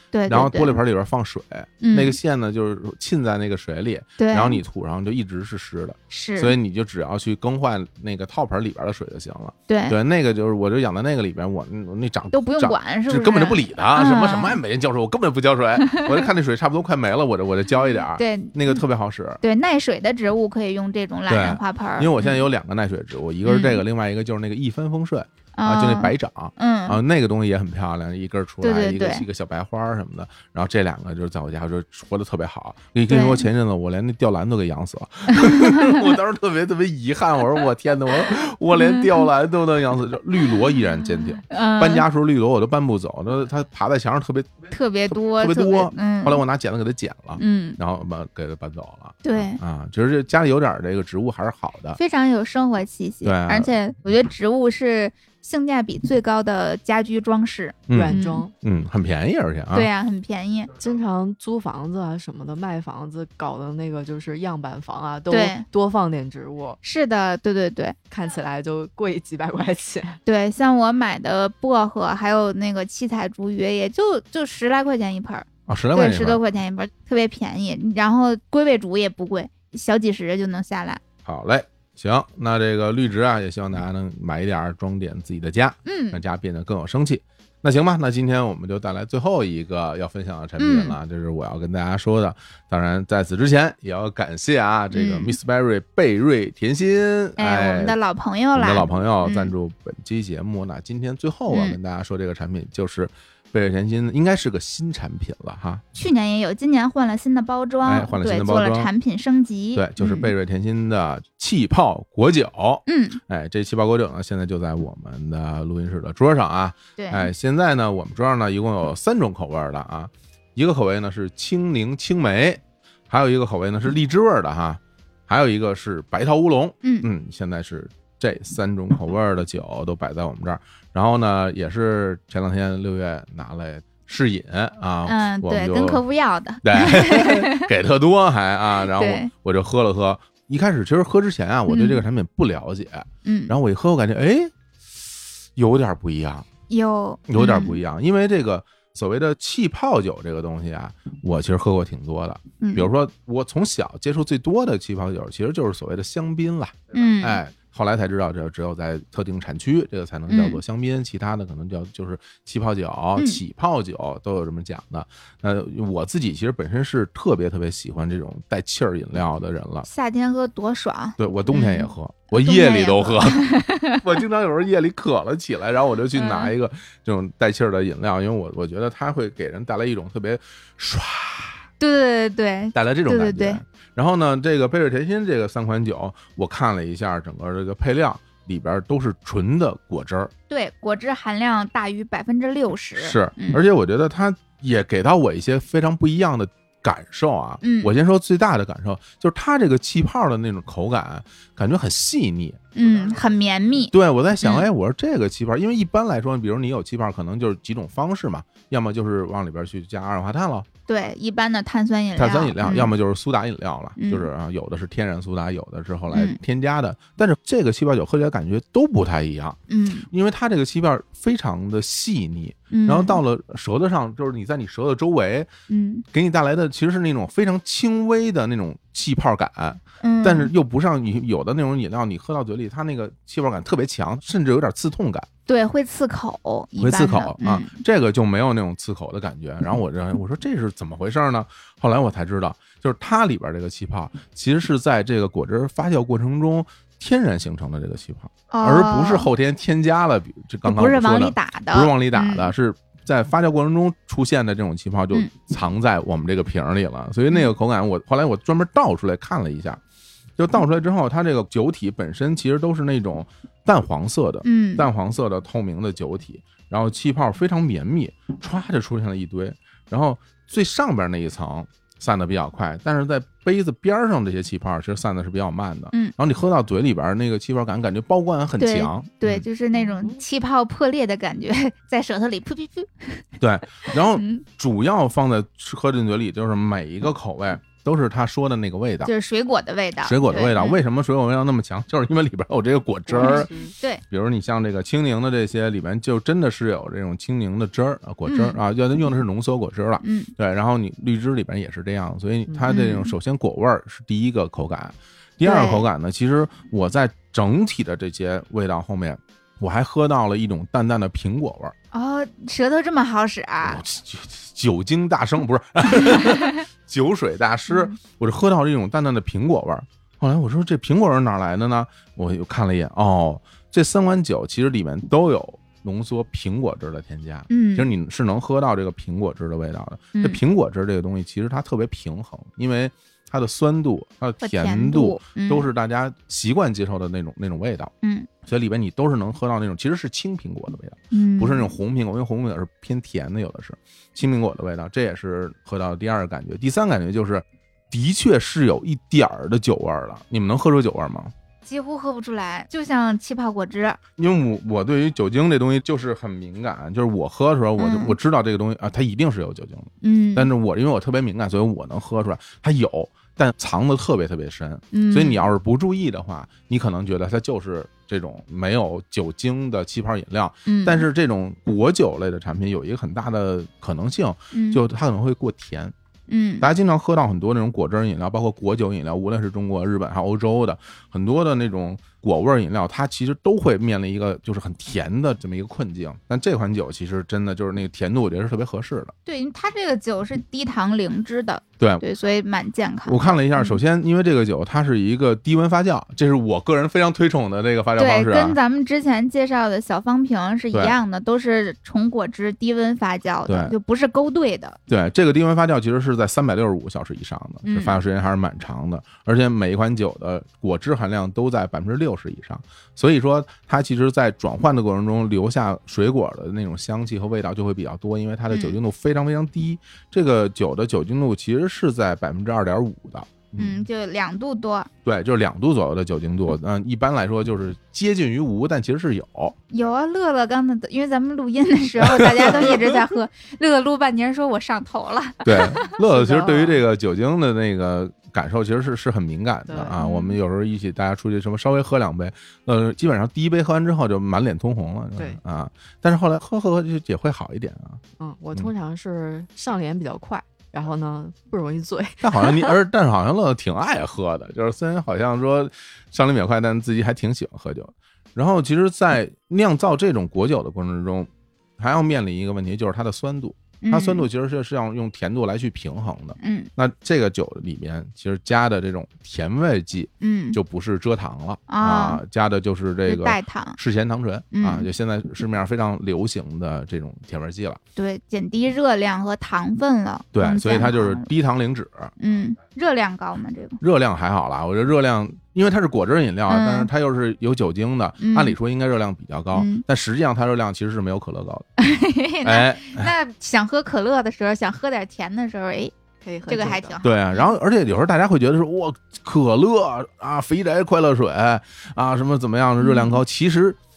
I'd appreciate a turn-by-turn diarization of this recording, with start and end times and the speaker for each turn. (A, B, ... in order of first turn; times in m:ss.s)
0:00.1-0:00.8 A
0:00.3-0:19.4 B
0:01.8-0:02.2 A
0:04.2-0:04.6 A
0:06.1-0:06.6 A
0:09.7-0:10.0 A
0:12.3-0:14.6 A
0:15.9-0:16.2 A
0:18.2-0:18.8 A
0:19.4-0:22.4 A
0:21.3-0:52.0 B
0:23.4-0:23.8 A
0:25.6-0:27.0 A
0:28.6-0:29.2 A
0:33.1-0:33.5 A
0:35.3-0:36.0 A
0:38.7-0:39.1 A
0:41.5-0:42.0 A
0:44.7-0:46.4 A
0:47.4-0:47.8 A
0:49.2-0:49.6 A
0:52.0-0:58.4 A
0:53.2-0:53.7 B
0:57.9-0:59.9 B
0:57.9-0:58.5 C
0:59.7-1:00.7 A
1:00.8-1:06.8 C
1:05.3-1:05.6 A
1:06.8-1:08.0 A
1:08.1-1:10.2 C
1:10.3-1:21.0 A
1:15.7-1:16.4 B
1:21.2-1:38.0 B
1:25.8-1:26.2 A
1:30.6-1:31.0 A
1:34.9-1:35.4 A
1:37.4-1:39.5 A
1:38.5-1:45.8 B
1:41.5-1:41.8 A
1:46.0-1:50.3 A
1:47.8-1:48.9 B
1:49.8-2:16.0 B
1:52.9-1:53.2 A
1:57.0-1:57.3 A
2:06.8-2:07.1 A
2:15.1-2:17.7 A
2:16.6-2:25.0 B
2:18.9-2:19.3 A
2:21.7-2:22.0 A
2:23.2-2:23.5 A
2:25.6-2:26.5 B
2:26.7-2:27.8 A
2:27.3-2:49.9 B
2:32.6-2:32.9 A
2:36.9-2:37.4 A
2:40.3-2:40.6 A
2:49.8-2:54.0 A
2:51.2-3:01.6 B
2:56.2-2:56.5 A
3:01.8-3:03.6 A
3:02.7-3:10.3 B
3:10.5-3:13.6 A
3:13.0-3:22.7 B
3:17.6-3:17.9 A
3:22.8-3:24.7 A
3:23.9-3:30.7 B
3:30.9-3:33.0 A
3:32.2-3:39.6 B
3:34.0-3:34.3 A
3:36.1-3:36.4 A
3:39.7-3:40.1 A
3:40.1-3:45.5 B
3:42.7-3:43.2 A
3:45.7-3:46.0 A
3:46.1-3:55.3 B
3:50.0-3:50.5 A
3:55.5-3:57.7 A
3:56.8-4:19.8 B
4:08.5-4:09.3 A
4:10.6-4:12.5 A
4:20.4-4:39.5 B
4:24.4-4:24.9 A
4:38.6-4:43.2 A
4:39.9-4:40.2 C
4:43.4-4:49.1 B
4:44.1-4:44.4 A
4:49.0-4:50.8 A
4:50.0-4:53.5 B
4:53.1-4:53.7 C
4:53.2-4:54.0 A
4:54.0-5:11.7 B
4:58.3-4:58.6 A
5:00.0-5:00.3 A
5:02.7-5:03.2 A
5:05.4-5:05.9 A
5:11.9-5:13.8 A
5:13.6-5:37.9 B
5:17.7-5:18.0 A
5:27.5-5:27.9 A
5:34.4-5:35.7 A
5:38.0-5:38.3 A
5:38.4-5:51.3 B
5:41.1-5:41.7 A
5:51.7-5:54.0 A
5:54.2-6:15.9 B
5:57.8-5:58.2 A
6:00.0-6:00.5 A
6:04.9-6:05.5 A
6:10.7-6:11.1 A
6:14.5-6:14.8 A
6:16.3-6:16.7 A
6:16.6-6:29.1 B
6:29.3-6:33.8 A
6:33.1-6:38.6 B
6:38.0-6:44.8 A
6:43.5-6:43.7 B
6:44.9-7:03.8 B
6:47.6-6:48.0 A
6:58.5-6:58.8 A
7:03.6-7:04.9 A
7:05.0-7:09.6 B
7:09.7-7:16.0 A
7:12.0-7:13.0 B
7:15.4-7:28.0 B
7:16.0-7:16.8 C
7:19.7-7:20.0 C
7:20.0-7:20.4 A
7:28.2-7:32.8 C
7:32.2-7:57.8 B
7:43.8-7:44.3 A
7:46.4-7:46.7 A
7:50.2-7:50.6 A
7:51.7-7:52.2 A
7:53.1-7:53.8 A
7:54.5-7:54.9 A
7:58.0-8:01.3 A
8:00.3-8:02.1 B
8:02.2-8:03.8 A
8:03.8-8:11.7 B
8:06.5-8:06.9 A
8:08.2-8:08.6 A
8:09.5-8:09.8 A
8:11.8-8:15.9 A
8:12.4-8:13.1 B
8:16.2-8:17.0 C
8:16.5-8:17.5 A
8:17.0-8:23.8 B
8:22.8-8:23.2 A